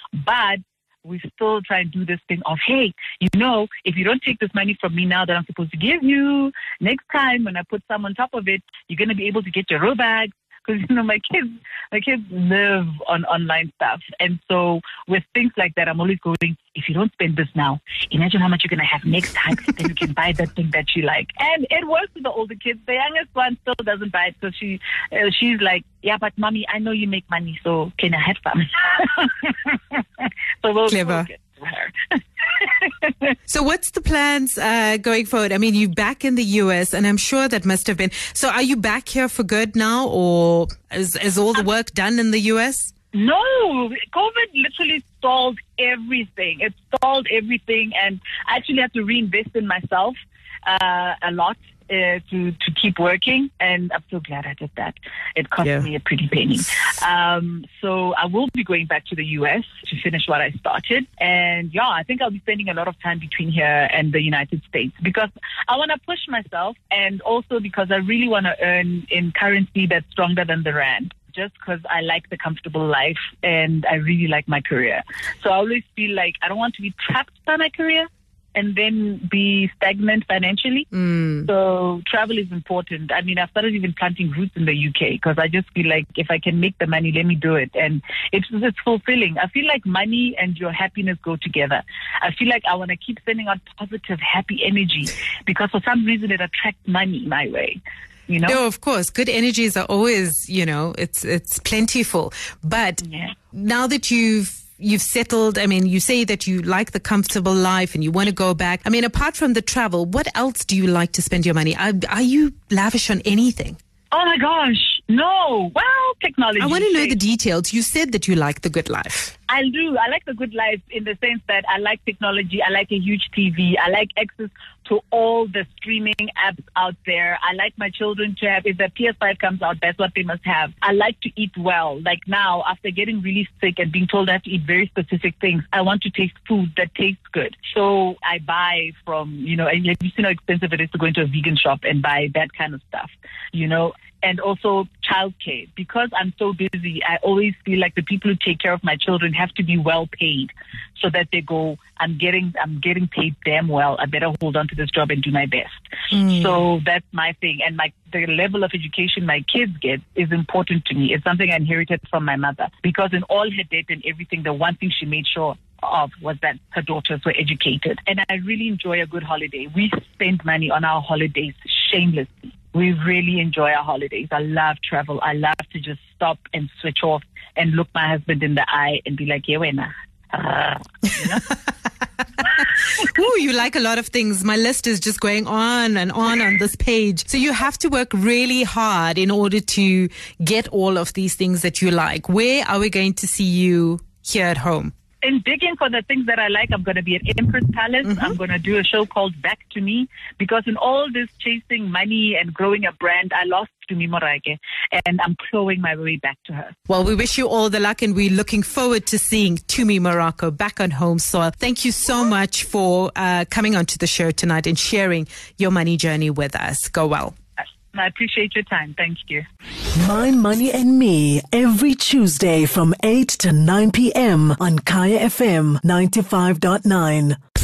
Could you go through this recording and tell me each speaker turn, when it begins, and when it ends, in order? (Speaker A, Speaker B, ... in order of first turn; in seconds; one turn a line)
Speaker A: 0.2-33.3
Speaker B: 30.9-31.3
Speaker B: 33.5-42.9
Speaker A: 43.1-80.9
Speaker B: 80.9-81.5
Speaker A: 81.5-98.6
Speaker B: 98.5-113.8
Speaker A: 103.0-103.3
Speaker A: 114.1-117.2
Speaker B: 116.6-119.3
Speaker A: 119.5-181.4
Speaker B: 156.1-156.6
Speaker B: 182.4-194.9
Speaker A: 195.2-206.8
Speaker B: 198.1-198.3
Speaker B: 206.9-217.3
Speaker A: 217.9-219.4
Speaker C: 220.0-227.4